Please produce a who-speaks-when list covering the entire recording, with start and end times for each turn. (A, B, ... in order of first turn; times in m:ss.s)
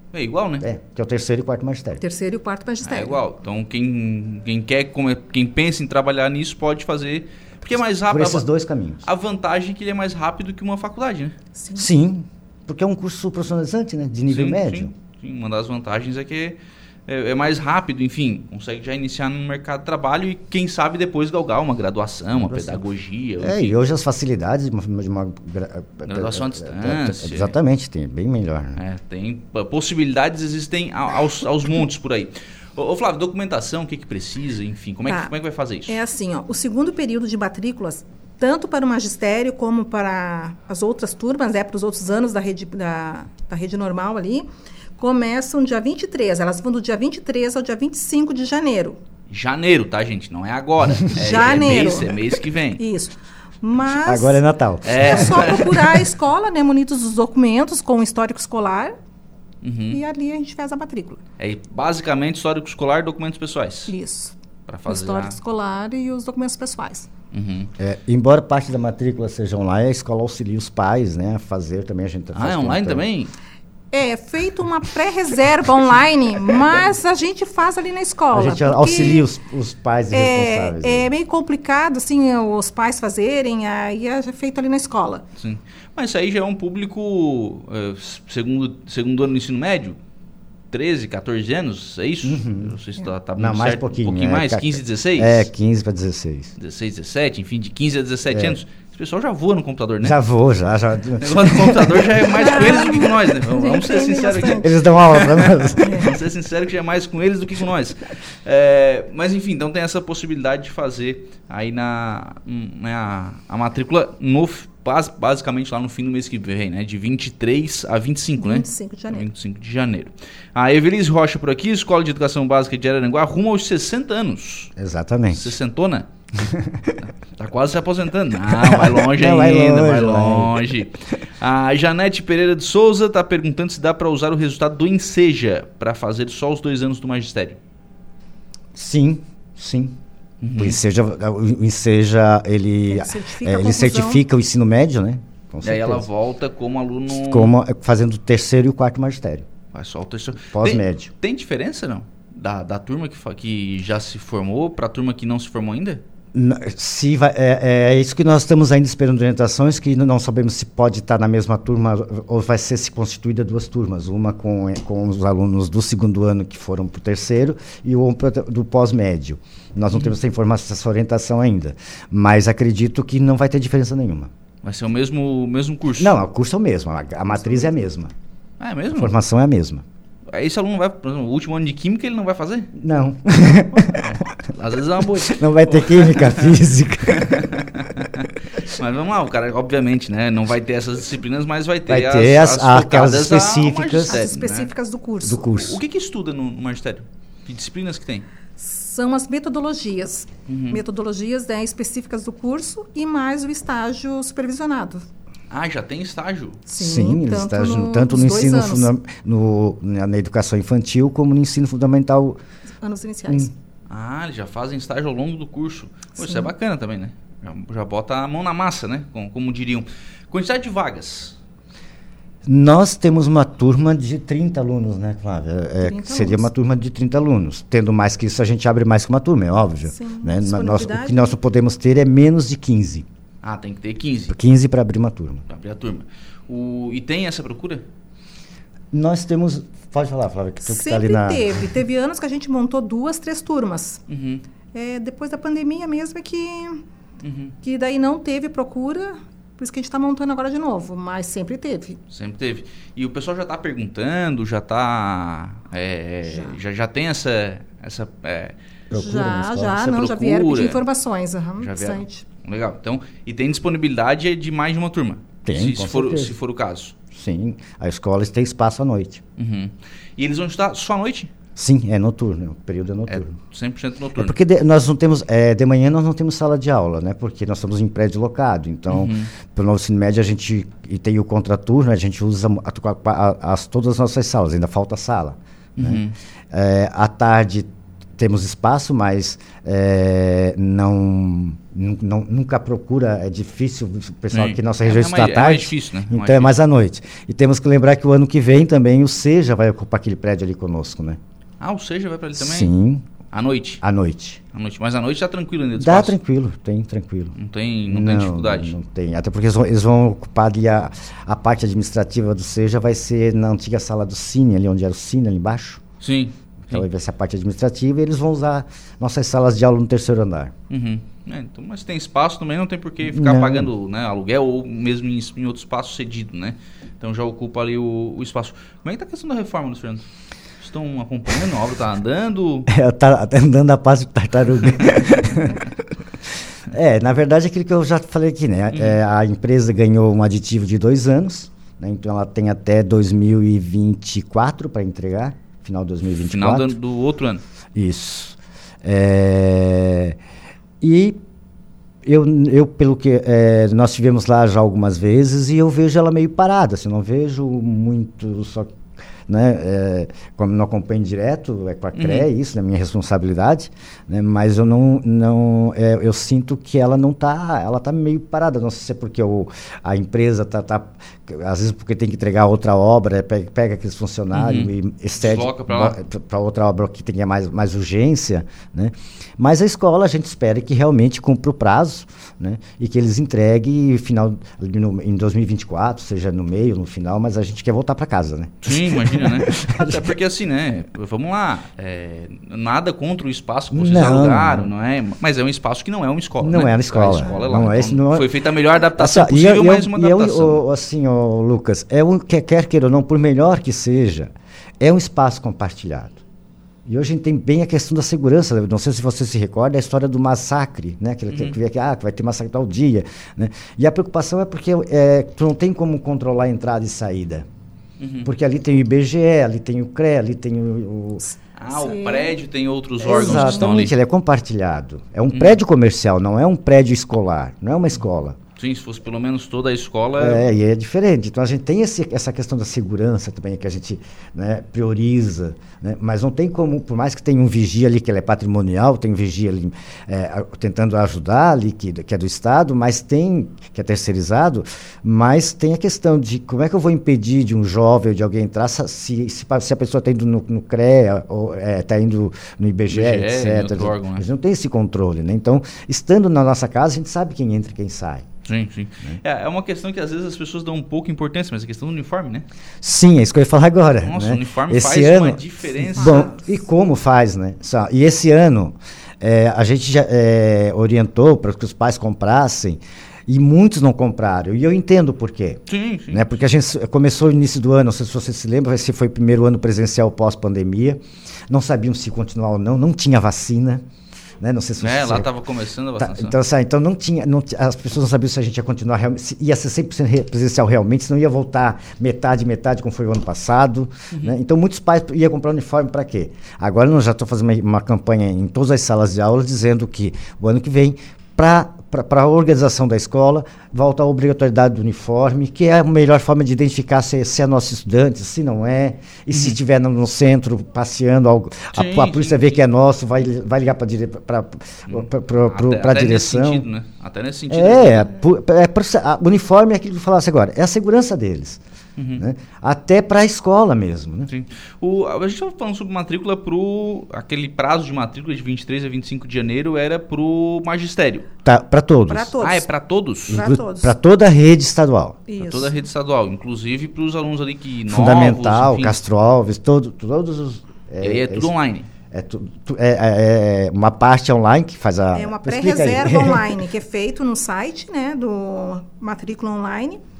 0:00.1-0:00.6 A
0:00.6-0:02.0 B
0:02.0-0:03.2 C
0:02.8-0:08.4 A
0:07.7-0:09.0 B
0:09.0-0:11.4 A
0:11.5-0:11.9 C
0:11.8-0:14.9 B
0:14.3-0:23.8 A
0:22.3-0:22.8 B
0:23.4-0:28.8 B
0:26.0-0:27.6 A
0:28.8-0:36.0 A
0:35.1-0:35.3 C
0:35.9-0:49.0 C
0:49.3-0:52.8 A
0:51.1-0:59.0 C
0:53.8-0:55.5 B
0:54.8-0:56.0 A
0:59.6-1:00.0 A
0:59.9-1:01.2 C
1:01.4-1:03.9 A
1:03.9-1:04.3 C
1:04.7-1:05.4 A
1:04.9-1:07.1 C
1:07.3-1:07.7 A
1:07.8-1:13.0 B
1:12.3-1:13.3 A
1:13.9-1:19.3 C
1:18.3-1:21.1 B
1:20.1-1:25.2 C
1:25.4-1:30.0 A
1:30.7-1:35.5 A
1:32.2-1:32.7 B
1:33.4-1:36.6 B
1:36.6-1:40.2 A
1:38.3-1:38.6 B
1:40.0-1:42.1 B
1:41.2-2:04.7 A
1:42.3-1:44.8 C
1:44.6-1:46.0 B
1:45.8-1:46.1 C
1:58.4-1:59.3 C
2:04.8-2:05.5 B
2:05.3-2:06.1 A
2:06.3-2:06.9 B
2:07.0-2:17.6 A
2:08.5-2:10.7 B
2:18.7-2:20.0 B
2:20.4-2:20.8 A
2:20.5-2:26.0 B
2:22.9-2:24.2 C
2:25.6-2:27.5 A
2:27.1-2:29.5 B
2:29.7-2:36.0 A
2:30.5-2:31.1 B
2:36.3-2:54.3 B
2:54.6-2:56.2 A
2:56.0-2:58.1 B
2:58.6-2:59.1 A
2:58.9-2:59.8 B
3:00.3-3:02.7 A
3:02.7-3:04.0 B
3:03.7-3:06.6 A
3:05.1-3:07.5 B
3:07.1-3:14.7 A
3:11.9-3:14.3 B
3:14.1-3:15.4 C
3:15.2-3:15.8 B
3:15.5-3:18.2 A
3:18.6-3:25.0 C
3:20.5-3:20.8 A
3:25.5-3:26.6 A
3:26.7-3:28.9 C
3:26.8-3:32.4 B
3:32.8-3:33.5 C
3:33.9-3:41.4 A
3:36.2-3:36.5 C
3:42.4-3:53.0 B
3:45.8-3:46.5 C
3:49.9-3:51.2 C
3:53.4-3:54.4 A
3:54.3-3:55.4 B
3:55.5-3:57.8 A
3:58.9-4:01.6 B
4:00.6-4:04.0 C
4:04.1-4:04.4 A
4:04.7-4:06.8 C
4:07.2-4:07.6 A
4:07.6-4:12.0 C
4:12.1-4:18.6 A
4:16.3-4:16.6 C
4:18.9-4:19.9 B
4:18.9-4:22.2 C
4:19.7-4:20.8 A
4:21.6-4:26.9 A
4:25.4-4:26.4 B
4:27.1-4:29.2 B
4:29.4-4:31.3 A
4:31.6-4:33.3 B
4:33.1-4:34.4 A
4:34.2-5:01.2 B
4:38.9-4:39.3 A
4:45.8-4:46.1 A
4:54.3-4:56.6 A
5:01.6-5:02.7 A
5:02.4-5:03.0 B
5:03.3-5:03.8 A
5:03.8-5:04.4 B
5:04.5-5:06.2 A
5:05.8-5:07.4 B
5:07.3-5:08.8 A
5:07.9-5:15.8 B
5:16.0-5:16.8 A
5:16.6-5:20.5 B
5:20.7-5:30.1 A
5:23.0-5:23.7 B
5:30.6-5:32.7 A
5:32.7-5:35.6 B
5:36.7-5:46.8 B
5:38.7-5:39.0 A
5:46.2-5:47.4 A
5:47.7-5:50.2 B
5:50.8-5:51.2 B
5:52.0-5:58.8 B
5:59.3-6:30.1 B
6:01.9-6:02.3 A
6:14.3-6:16.0 A
6:28.6-6:40.6 A
6:33.7-6:34.7 B
6:36.4-6:38.3 B
6:39.0-6:46.2 B
6:46.8-6:57.5 B
6:51.3-6:51.6 A
6:58.0-6:58.3 A
6:58.2-7:01.2 B
7:01.2-7:02.3 C
7:01.6-7:03.9 A
7:03.0-7:03.7 C
7:03.0-7:08.4 B
7:05.3-7:05.6 A
7:08.6-7:10.4 A
7:10.2-7:38.3 B
7:32.9-7:34.2 A
7:38.4-7:42.4 A
7:42.8-8:03.8 B
7:44.0-7:46.3 A
7:46.0-7:46.5 C
7:55.7-7:56.4 A
8:04.4-8:05.3 B
8:04.8-8:06.4 A
8:06.0-8:36.7 B
8:14.1-8:14.4 A
8:31.7-8:32.6 A
8:34.9-8:38.1 A
8:37.5-8:41.6 B
8:42.0-8:42.2 A
8:42.2-8:44.3 B
8:44.3-8:51.2 A
8:51.4-8:52.3 B
8:52.1-8:52.7 C
8:52.4-8:53.4 A
8:53.2-8:53.9 C
8:53.3-8:55.2 B
8:55.3-8:55.8 C
8:55.4-8:59.0 A
8:57.9-9:01.5 B
9:01.0-9:01.9 A
9:02.1-9:06.6 B
9:05.1-9:10.0 C